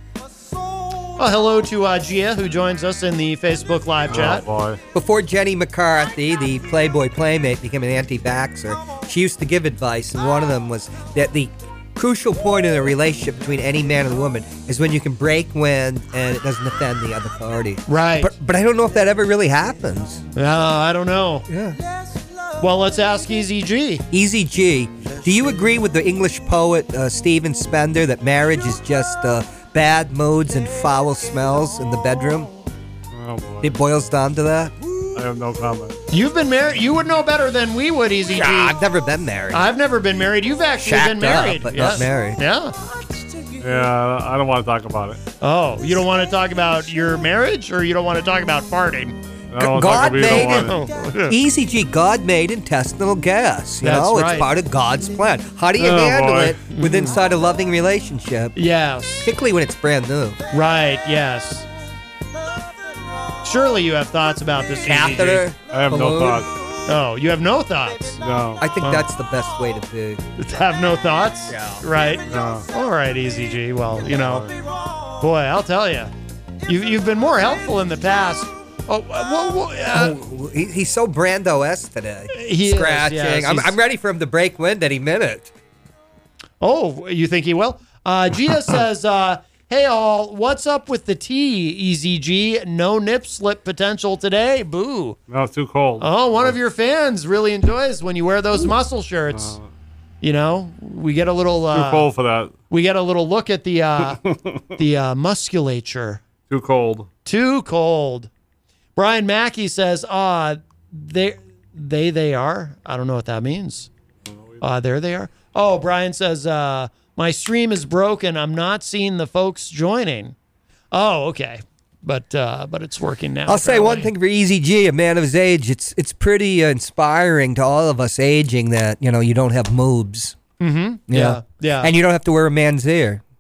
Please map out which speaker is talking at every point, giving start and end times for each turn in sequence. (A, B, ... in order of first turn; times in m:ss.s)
0:01.2-0:04.4 A
0:04.1-0:04.8 B
0:04.9-0:20.2 C
0:17.9-0:18.3 A
0:20.3-0:21.4 A
0:21.5-0:21.8 C
0:22.6-0:24.0 A
0:24.1-0:32.5 C
0:33.1-0:33.8 B
0:33.6-0:34.8 C
0:35.1-0:36.0 B
0:36.1-0:38.8 A
0:38.3-0:39.7 C
0:39.5-0:42.7 A
0:40.8-0:42.4 C
0:43.6-0:45.2 B
0:45.4-0:49.2 A
0:49.5-0:50.8 B
0:49.6-0:50.8 C
0:50.2-0:51.3 A
0:51.3-0:58.5 C
0:53.8-0:54.5 A
0:55.8-0:56.6 B
0:56.6-0:57.2 A
0:58.5-0:59.3 A
0:59.2-1:00.4 C
1:00.5-1:01.7 A
1:03.4-1:05.5 A
1:04.8-1:06.5 C
1:05.7-1:06.5 B
1:06.9-1:08.2 A
1:08.2-1:08.6 B
1:08.6-1:10.2 C
1:10.4-1:14.5 A
1:11.5-1:11.8 C
1:12.3-1:12.7 B
1:14.1-1:14.5 B
1:15.2-1:16.1 A
1:16.6-1:20.1 A
1:19.9-1:25.5 C
1:22.3-1:23.8 A
1:26.6-1:35.2 A
1:35.3-1:36.6 B
1:36.0-1:39.6 A
1:39.3-1:39.7 B
1:40.2-1:42.1 A
1:41.7-1:42.5 B
1:42.7-1:44.2 A
1:44.8-1:46.2 A
1:46.5-1:47.1 B
1:47.2-1:48.3 A
1:49.0-1:53.9 A
1:54.2-1:54.6 B
1:54.6-2:00.3 A
2:00.9-2:04.1 A
2:03.4-2:10.4 C
2:10.6-2:11.9 A
2:11.1-2:13.2 C